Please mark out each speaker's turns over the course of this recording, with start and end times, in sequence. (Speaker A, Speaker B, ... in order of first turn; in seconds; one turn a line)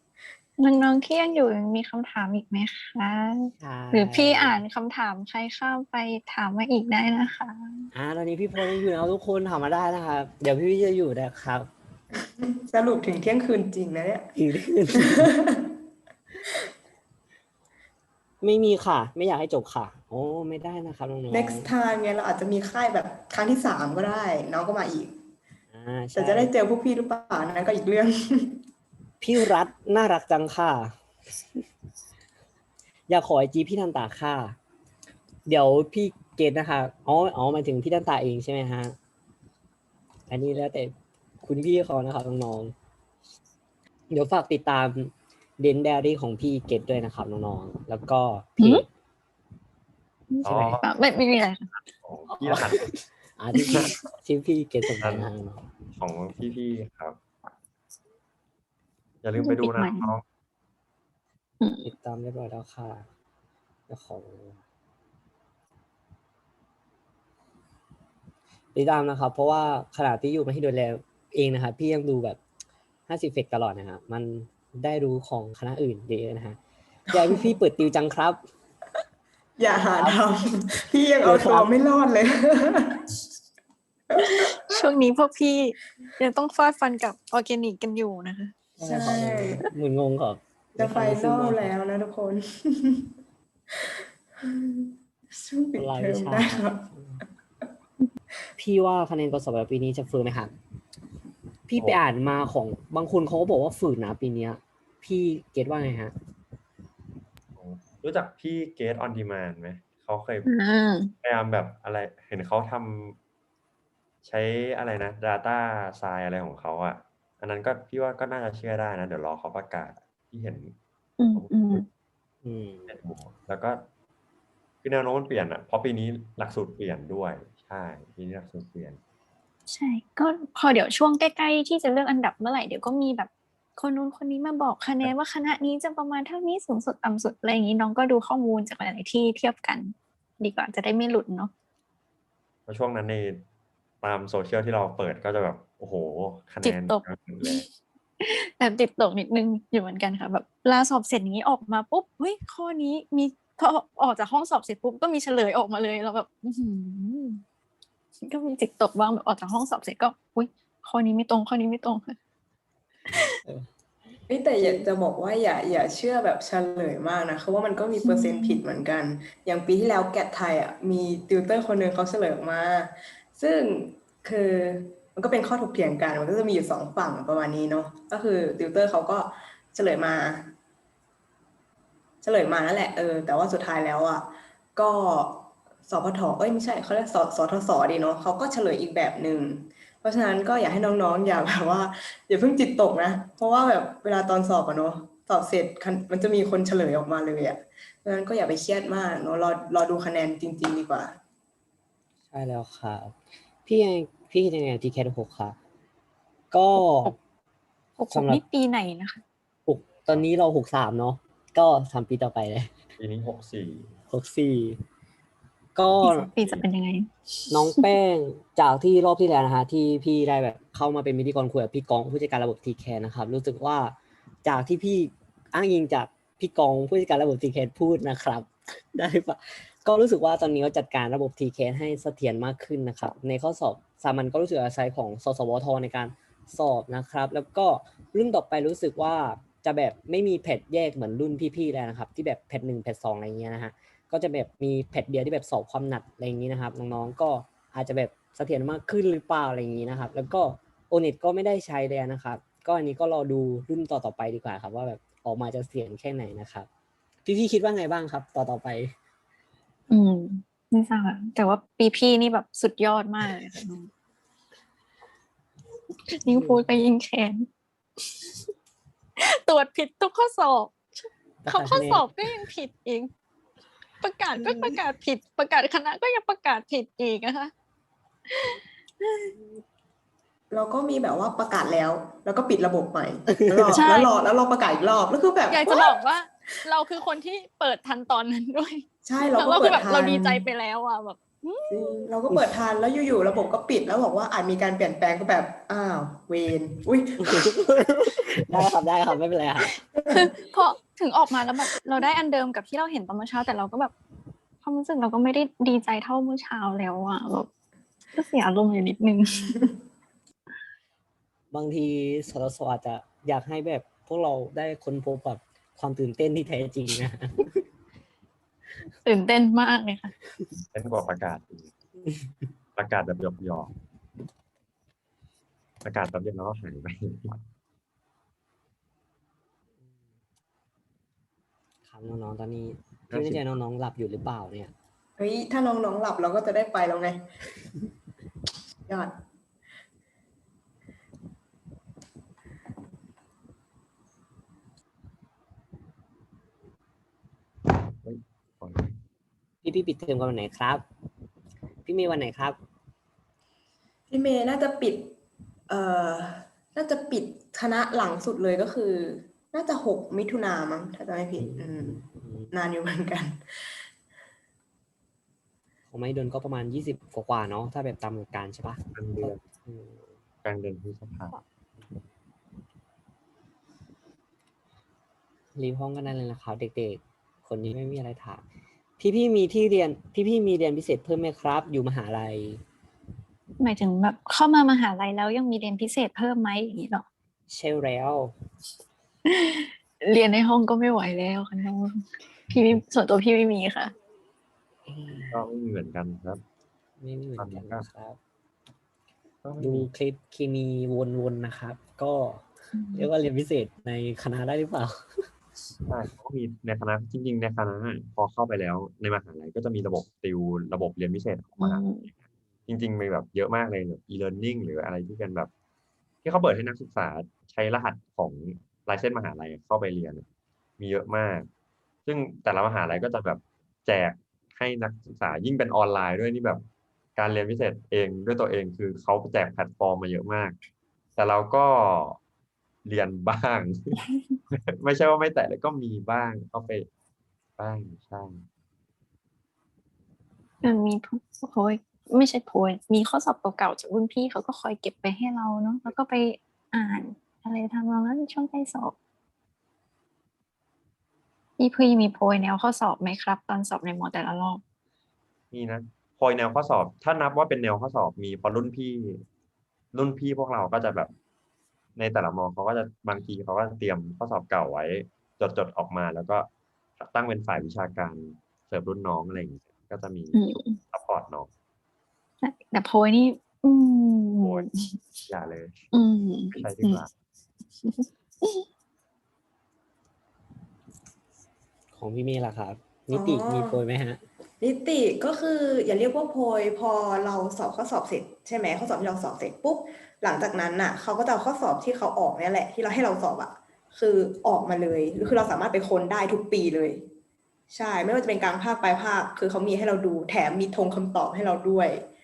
Speaker A: 0.6-7.8
Speaker B: 3.6-4.6
Speaker B: 7.9-11.7
Speaker C: 12.4-14.3
Speaker B: 14.3-15.3
Speaker C: 14.9-15.7
Speaker B: 18.4-21.7
Speaker C: 21.3-25.2
Speaker B: 25.7-26.5
Speaker C: 26.1-28.6
Speaker B: 29.2-31.0
Speaker B: 33.1-34.6
Speaker B: 35.5-39.0
Speaker B: 40.3-42.7
Speaker B: 44.1-48.9
Speaker A: 48.6-48.9
Speaker A: 50.3-51.7
Speaker D: 50.4-50.9
Speaker B: 50.5-50.8
Speaker D: 51.8-52.9
Speaker B: 52.3-55.7
Speaker D: 53.5-54.0
Speaker D: 55.0-55.3
Speaker D: 56.0-57.2
Speaker D: 59.2-60.2
Speaker A: 59.4-60.1
Speaker A: 61.6-61.9
Speaker B: 61.8-63.1
Speaker B: 63.9-64.6
Speaker B: 68.7-72.4
Speaker B: 73.1-76.6
Speaker B: 77.1-78.4
Speaker C: 77.1-77.5
Speaker C: 79.6-83.0
Speaker B: 80.0-80.2
Speaker B: 81.2-81.7
Speaker C: 84.2-84.6
Speaker A: 84.2-88.5
Speaker B: 88.8-91.7
Speaker C: 88.8-89.7
Speaker C: 90.8-93.1
Speaker C: 93.8-96.9
Speaker B: 95.8-97.2
Speaker B: 98.6-100.5
Speaker B: 101.7-106.1
Speaker D: 107.6-110.5
Speaker A: 110.5-111.1
Speaker D: 111.2-113.2
Speaker D: 114.2-120.8
Speaker A: 121.2-121.8
Speaker D: 121.3-121.8
Speaker B: 122.4-122.9
Speaker D: 122.9-123.9
Speaker D: 124.8-129.0
Speaker A: 129.7-141.5
Speaker D: 142.7-143.4
Speaker D: 144.0-147.7
Speaker A: 146.6-147.6
Speaker A: 148.2-157.4
Speaker A: 158.2-162.2
Speaker A: 163.1-163.4
Speaker C: 164.3-180.5
Speaker B: 164.6-164.9
Speaker A: 168.0-168.6
Speaker C: 182.2-201.2
Speaker B: 202.3-205.6
Speaker B: 206.5-207.2
Speaker A: 206.8-207.1
Speaker A: 208.0-209.2
Speaker B: 208.1-208.4
Speaker B: 209.7-212.7
Speaker D: 213.0-213.9
Speaker B: 214.1-214.8
Speaker B: 215.8-216.3
Speaker A: 216.0-217.9
Speaker B: 217.5-256.7
Speaker B: 257.2-258.9
Speaker A: 259.9-263.9
Speaker A: 266.1-267.5
Speaker B: 266.3-266.7
Speaker A: 268.1-268.3
Speaker A: 269.2-273.1
Speaker B: 271.4-272.1
Speaker A: 274.0-277.5
Speaker B: 274.4-274.8
Speaker A: 278.3-279.4
Speaker C: 280.5-286.0
Speaker B: 283.5-283.8
Speaker A: 283.7-284.2
Speaker A: 285.5-292.0
Speaker C: 289.1-290.5
Speaker C: 291.7-297.7
Speaker B: 297.2-299.7
Speaker C: 300.0-300.3
Speaker A: 300.1-303.9
Speaker A: 304.6-307.5
Speaker A: 308.1-309.7
Speaker B: 311.5-317.6
Speaker A: 319.0-320.1
Speaker D: 320.7-321.7
Speaker D: 322.8-323.7
Speaker D: 325.8-327.4
Speaker B: 331.9-334.7
Speaker D: 333.1-333.5
Speaker C: 335.2-337.2
Speaker C: 338.9-339.1
Speaker D: 348.0-348.9
Speaker B: 349.6-350.8
Speaker B: 351.9-352.6
Speaker C: 354.1-355.1
Speaker C: 355.7-362.0
Speaker B: 361.4-362.5
Speaker C: 362.5-363.9
Speaker B: 365.9-370.1
Speaker D: 368.9-369.4
Speaker D: 370.4-371.4
Speaker B: 375.6-378.4
Speaker B: 379.0-382.6
Speaker A: 383.6-387.1
Speaker B: 387.5-388.4
Speaker A: 389.3-393.9
Speaker B: 394.9-395.4
Speaker D: 395.3-396.4
Speaker B: 397.0-398.2
Speaker D: 397.4-397.9
Speaker D: 399.4-399.9
Speaker B: 399.6-405.3
Speaker A: 402.7-403.1
Speaker D: 405.9-412.1
Speaker A: 411.6-412.1
Speaker D: 412.7-415.5
Speaker D: 416.2-420.3
Speaker D: 420.8-421.5
Speaker D: 422.1-426.6
Speaker D: 427.2-430.6
Speaker D: 431.2-432.2
Speaker D: 432.9-434.0
Speaker D: 434.5-436.9
Speaker D: 437.6-438.4
Speaker A: 440.6-448.9
Speaker A: 451.6-454.6
Speaker D: 455.5-459.2
Speaker D: 459.9-461.1
Speaker D: 462.0-466.5
Speaker D: 467.0-471.5
Speaker A: 470.3-470.8
Speaker A: 472.4-475.0
Speaker D: 474.4-474.7
Speaker D: 475.3-475.8
Speaker A: 475.9-477.0
Speaker D: 476.5-477.1
Speaker A: 477.8-478.7
Speaker B: 481.9-484.2
Speaker C: 483.1-483.8
Speaker C: 484.6-497.0
Speaker C: 497.7-502.1